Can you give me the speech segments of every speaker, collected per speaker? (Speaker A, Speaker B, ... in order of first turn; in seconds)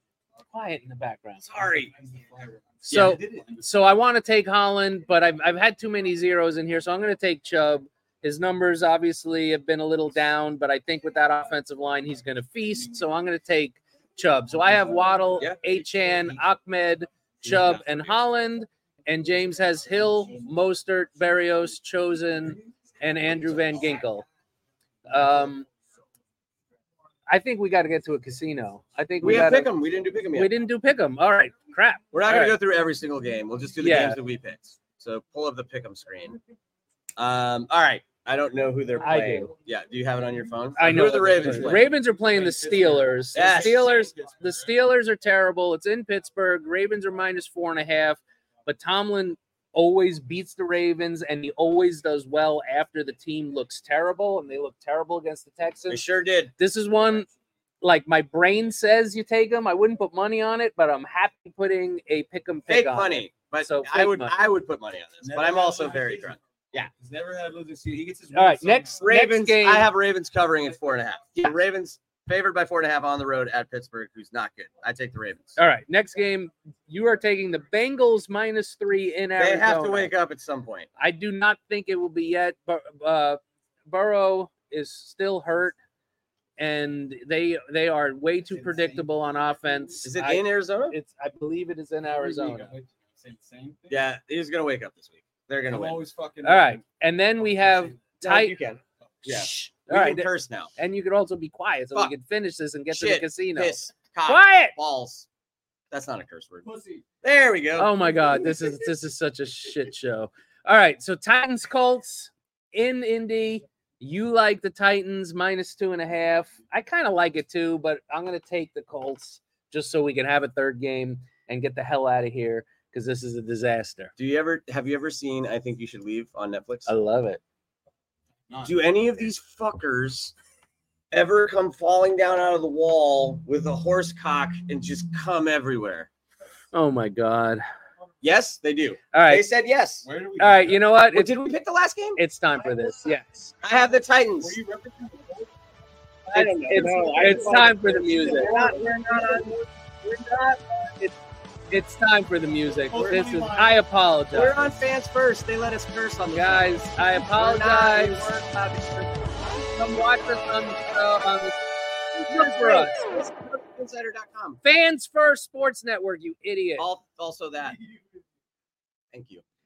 Speaker A: 0.5-1.5, 2.9-24.2, 25.1-25.7, 27.3-29.7, 30.3-32.5, 33.8-34.2, 39.0-39.5, 40.8-56.0, 56.6-57.3, 57.8-64.3, 68.3-69.9, 75.6-80.1, 81.0-85.8, 86.6-92.7, 96.4-98.5, 99.2-104.7, 107.8-124.1, 126.9-127.4, 136.7-137.6, 139.1-139.4, 140.4-141.3, 142.2-143.5, 146.3-148.6, 151.7-154.8, 156.3-158.2, 159.7-161.6, 162.2-162.9, 164.6-166.9
Speaker B: 1.4-1.9, 2.9-3.4, 17.5-17.8, 29.2-30.5, 32.1-36.4, 37.2-41.8, 43.3-43.9, 55.9-56.5, 62.7-66.9, 69.0-75.6, 79.4-80.9, 90.0-91.0, 93.9-96.0, 98.2-100.7, 102.9-105.3, 105.9-106.6, 107.2-108.0, 124.2-126.9, 128.6-130.3, 131.1-136.1, 138.2-140.0, 141.1-142.2, 143.6-144.6, 146.3-151.1, 154.3-159.6, 162.2-164.6, 166.8-167.8, 169.1-169.4
Speaker C: 2.1-3.6, 40.9-44.7, 65.2-66.4, 67.0-69.0, 88.5-89.1, 92.2-94.0, 95.7-96.8, 106.7-107.0, 128.5-128.8, 140.0-140.8, 144.4-145.5, 152.9-153.8